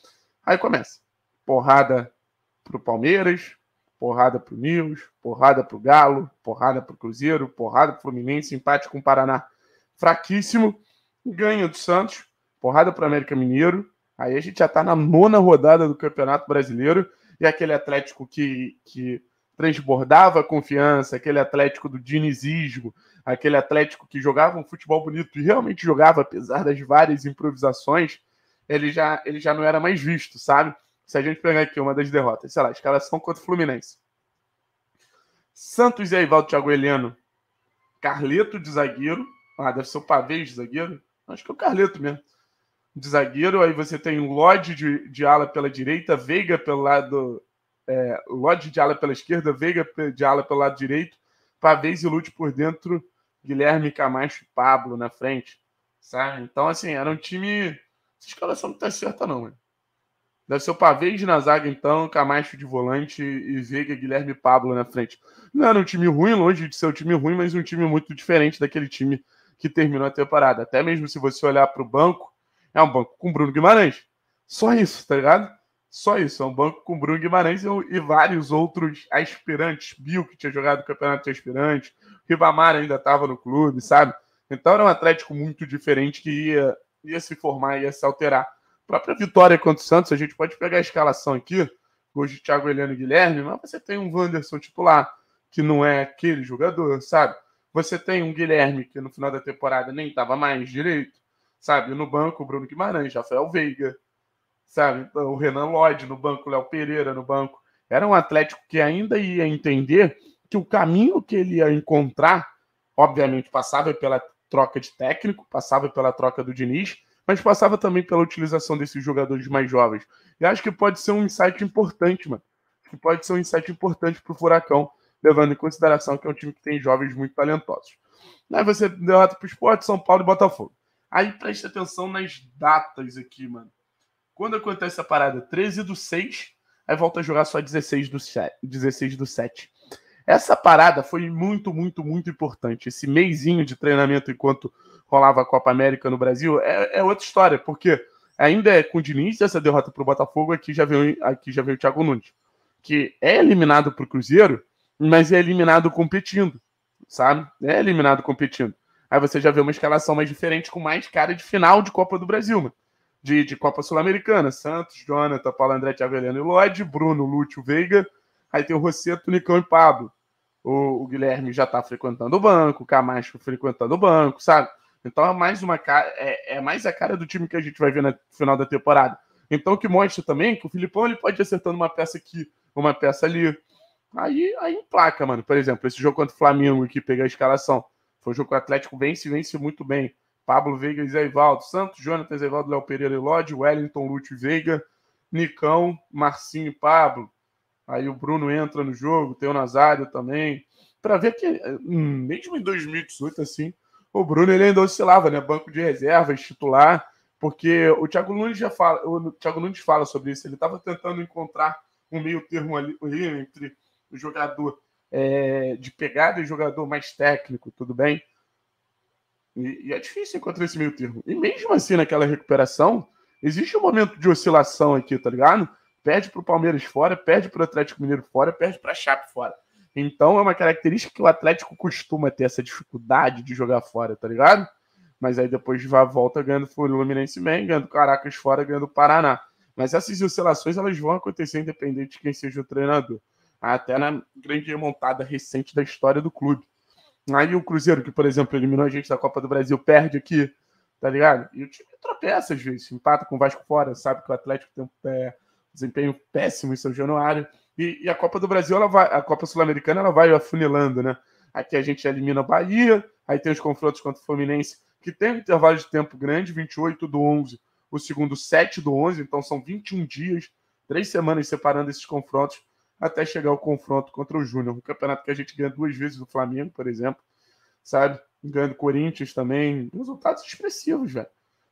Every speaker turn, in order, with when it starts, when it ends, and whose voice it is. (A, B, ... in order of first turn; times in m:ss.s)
0:00.4-0:02.1 A
0:02.6-0:34.0 A
0:35.5-0:37.2 A
0:38.0-0:42.2 A
0:42.9-0:59.6 A
1:00.5-1:44.0 A
1:44.7-2:08.0 A
2:08.5-2:13.7 A
2:14.3-2:19.7 A
2:20.3-3:03.6 A
3:04.1-3:17.3 A
3:17.9-3:38.2 A
3:39.5-3:54.7 A
3:55.2-4:06.6 A
4:07.3-4:37.2 A
4:37.8-4:41.3 A